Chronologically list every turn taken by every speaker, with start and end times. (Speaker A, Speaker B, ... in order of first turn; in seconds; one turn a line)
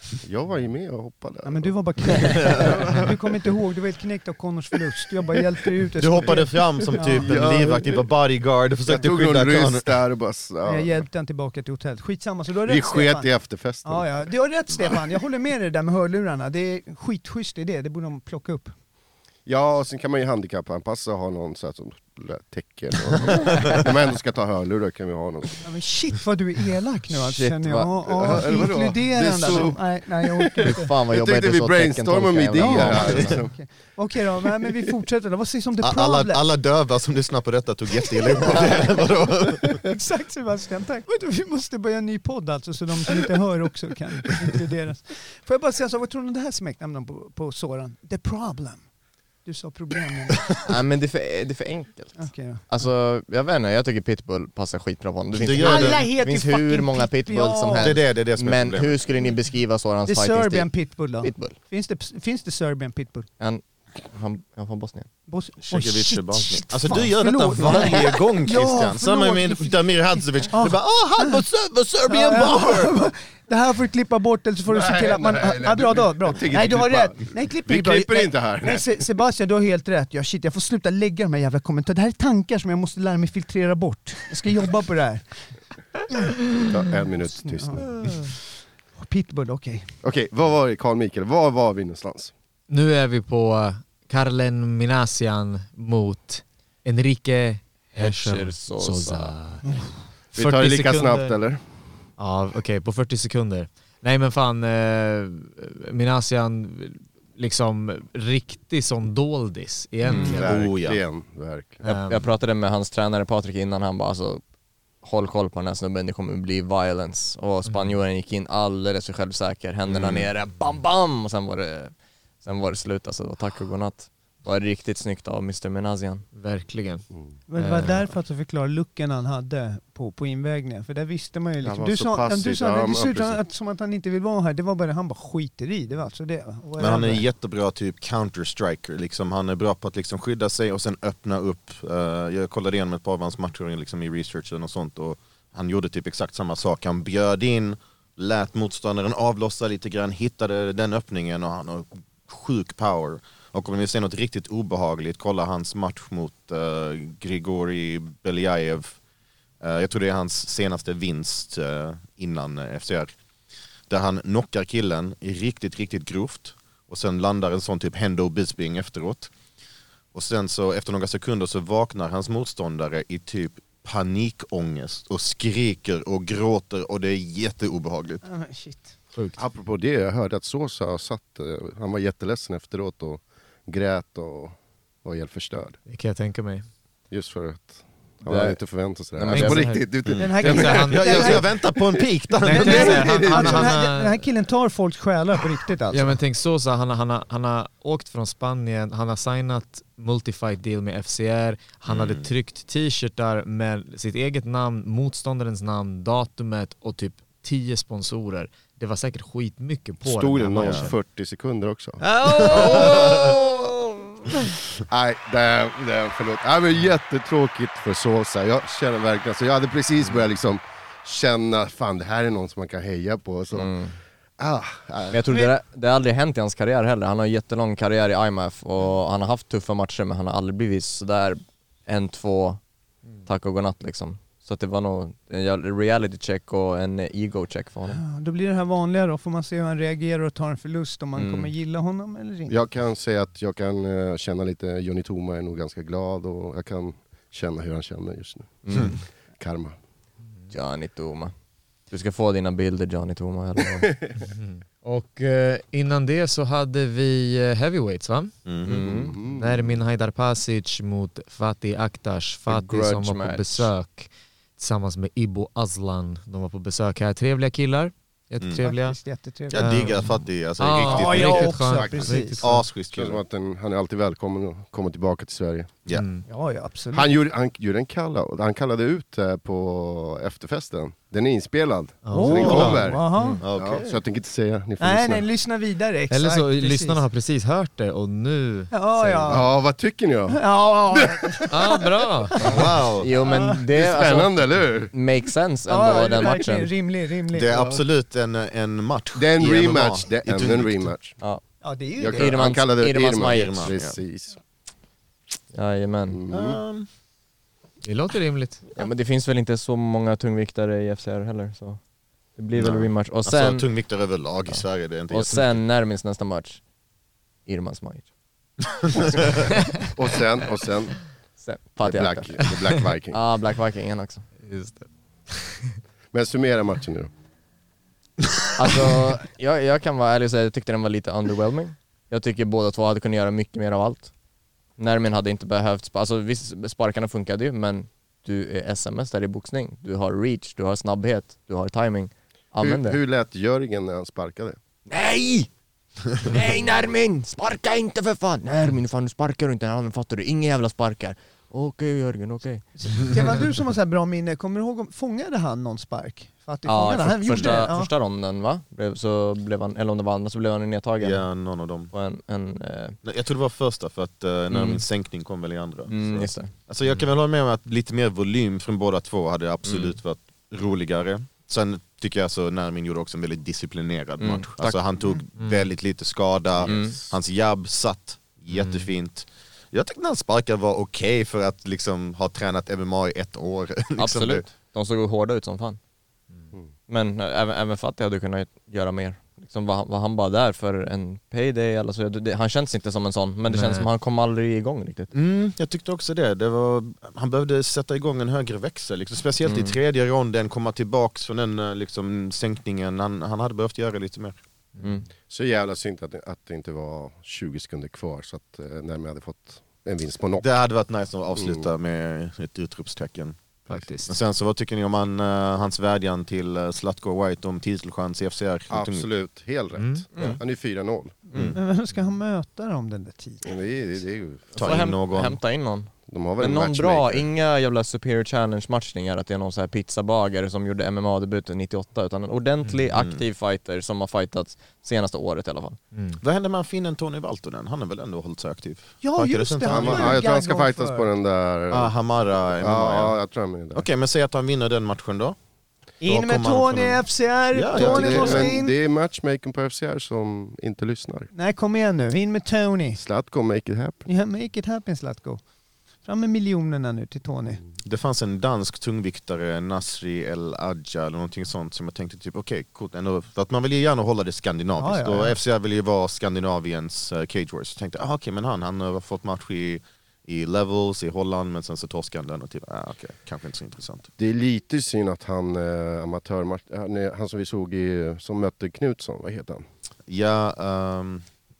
Speaker A: 0.1-3.1
Speaker B: 1.4-7.3
Speaker C: 6.0-10.0
Speaker A: 7.0-8.1
Speaker A: 8.8-11.1
Speaker B: 10.6-13.3
Speaker A: 12.7-14.3
Speaker B: 13.8-18.7
Speaker A: 19.5-25.6
Speaker B: 25.6-30.9
Speaker D: 27.2-28.4
Speaker A: 28.1-33.5
Speaker D: 30.6-33.4
Speaker B: 32.6-36.4
Speaker C: 35.8-39.9
Speaker B: 38.2-48.9
Speaker B: 49.5-50.4
Speaker D: 50.7-61.5
Speaker B: 52.2-52.6
Speaker C: 55.3-56.1
Speaker B: 55.6-58.0
Speaker C: 57.8-59.3
Speaker B: 60.1-63.3
Speaker D: 63.4-65.1
Speaker B: 65.3-71.4
Speaker C: 65.6-72.9
Speaker B: 72.0-85.2
Speaker A: 74.7-79.1
Speaker B: 86.1-86.4
Speaker A: 86.6-88.1
Speaker B: 87.4-89.9
Speaker A: 90.0-92.3
Speaker E: 92.7-99.8
Speaker D: 98.0-99.3
Speaker A: 100.3-101.6
Speaker E: 100.3-101.4
Speaker E: 102.2-110.6
Speaker C: 110.1-111.0
Speaker A: 110.1-111.8
Speaker E: 111.8-112.3
Speaker D: 111.9-114.4
Speaker D: 115.0-121.9
Speaker E: 117.7-117.9
Speaker C: 119.9-120.3
Speaker D: 122.4-126.2
Speaker E: 126.3-127.1
Speaker B: 127.5-137.2
Speaker E: 127.6-128.1
Speaker A: 131.6-133.4
Speaker C: 136.8-159.0
Speaker C: 159.6-163.1
Speaker C: 163.9-169.3
Speaker C: 170.1-178.2
Speaker B: 178.2-178.9
Speaker A: 179.4-185.8
Speaker E: 185.9-186.7
Speaker A: 187.1-192.0
Speaker D: 188.3-188.6
Speaker D: 189.2-189.7
Speaker E: 189.3-189.9
Speaker C: 190.1-193.2
Speaker B: 190.2-191.4
Speaker E: 190.4-191.4
Speaker B: 192.4-196.2
Speaker E: 192.4-194.2
Speaker A: 192.6-193.7
Speaker E: 195.9-210.9
Speaker C: 201.9-202.3
Speaker A: 210.0-213.2
Speaker C: 210.6-210.9
Speaker E: 212.0-214.5
Speaker C: 212.3-213.3
Speaker A: 214.9-223.7
Speaker D: 223.5-223.9
Speaker A: 224.4-225.2
Speaker D: 225.1-232.6
Speaker D: 233.2-238.0
Speaker B: 237.9-242.6
Speaker D: 241.2-241.5
Speaker A: 242.5-248.7
Speaker D: 248.7-249.0
Speaker C: 248.7-249.0
Speaker A: 249.4-249.8
Speaker D: 250.5-251.3
Speaker D: 251.9-253.9
Speaker E: 254.3-258.3
Speaker C: 258.5-258.9
Speaker D: 258.6-259.1
Speaker A: 258.8-259.6
Speaker E: 259.3-269.0
Speaker D: 262.5-263.7
Speaker B: 268.6-269.9
Speaker C: 269.5-271.6
Speaker E: 269.5-272.6
Speaker B: 270.8-272.4
Speaker A: 271.7-272.2
Speaker C: 272.4-273.2
Speaker A: 272.9-275.7
Speaker E: 275.9-276.2
Speaker B: 276.3-277.1
Speaker A: 276.9-285.3
Speaker E: 282.1-282.7
Speaker B: 282.1-283.4
Speaker C: 282.3-284.0
Speaker D: 283.2-283.4
Speaker B: 284.8-287.0
Speaker E: 286.1-289.4
Speaker B: 288.7-289.5
Speaker A: 289.3-291.5
Speaker B: 290.3-293.6
Speaker E: 291.5-292.4
Speaker C: 292.4-293.1
Speaker D: 293.0-296.7
Speaker A: 293.7-294.9
Speaker B: 295.7-297.8
Speaker C: 297.3-300.9
Speaker A: 299.2-301.2
Speaker B: 301.6-302.4
Speaker A: 302.0-304.4
Speaker D: 302.1-303.7
Speaker C: 303.2-304.0
Speaker D: 305.5-306.2
Speaker A: 306.1-306.6
Speaker C: 306.3-306.9
Speaker E: 307.8-308.6
Speaker D: 308.8-311.8
Speaker D: 312.4-313.7
Speaker C: 312.6-315.6
Speaker D: 315.1-316.6
Speaker D: 317.5-318.1
Speaker C: 318.8-319.5
Speaker A: 319.9-321.0
Speaker D: 321.4-322.4
Speaker A: 321.8-323.2
Speaker D: 323.1-324.3
Speaker E: 324.4-325.8
Speaker A: 326.1-327.1
Speaker D: 328.6-334.1
Speaker D: 334.8-343.0
Speaker A: 342.6-344.6
Speaker D: 344.9-345.5
Speaker D: 346.2-352.6
Speaker B: 352.8-357.9
Speaker D: 356.6-361.3
Speaker C: 361.0-361.9
Speaker D: 361.9-363.0
Speaker C: 363.0-384.5
Speaker D: 364.5-364.9
Speaker D: 365.9-366.5
Speaker D: 369.6-369.9
Speaker D: 374.2-374.8
Speaker E: 375.4-375.7
Speaker D: 376.6-377.0
Speaker E: 378.5-378.9
Speaker D: 384.0-385.8
Speaker D: 386.9-395.1
Speaker E: 393.5-393.9
Speaker C: 395.1-404.4
Speaker D: 399.4-399.8
Speaker E: 404.8-405.0
Speaker A: 405.3-410.4
Speaker C: 410.4-413.4
Speaker A: 411.4-411.7
Speaker E: 413.7-414.2
Speaker C: 414.1-419.1
Speaker A: 418.7-421.2
Speaker E: 419.8-420.1
Speaker D: 421.3-421.6
Speaker C: 421.3-421.6
Speaker B: 421.5-423.5
Speaker A: 423.4-424.5
Speaker D: 424.6-435.8
Speaker C: 424.6-425.4
Speaker A: 426.1-427.2
Speaker C: 432.9-433.2
Speaker E: 435.9-436.2
Speaker C: 436.2-440.2
Speaker B: 439.0-441.1
Speaker A: 439.6-441.9
Speaker C: 441.7-443.1
Speaker A: 442.6-443.9
Speaker C: 443.8-445.4
Speaker B: 446.0-448.8
Speaker C: 446.1-448.6
Speaker A: 447.7-451.3
Speaker B: 451.3-453.0
Speaker A: 453.0-454.1
Speaker B: 454.1-455.4
Speaker B: 456.0-457.6
Speaker C: 457.8-474.1
Speaker B: 464.8-465.4
Speaker A: 474.2-479.6
Speaker C: 480.1-481.3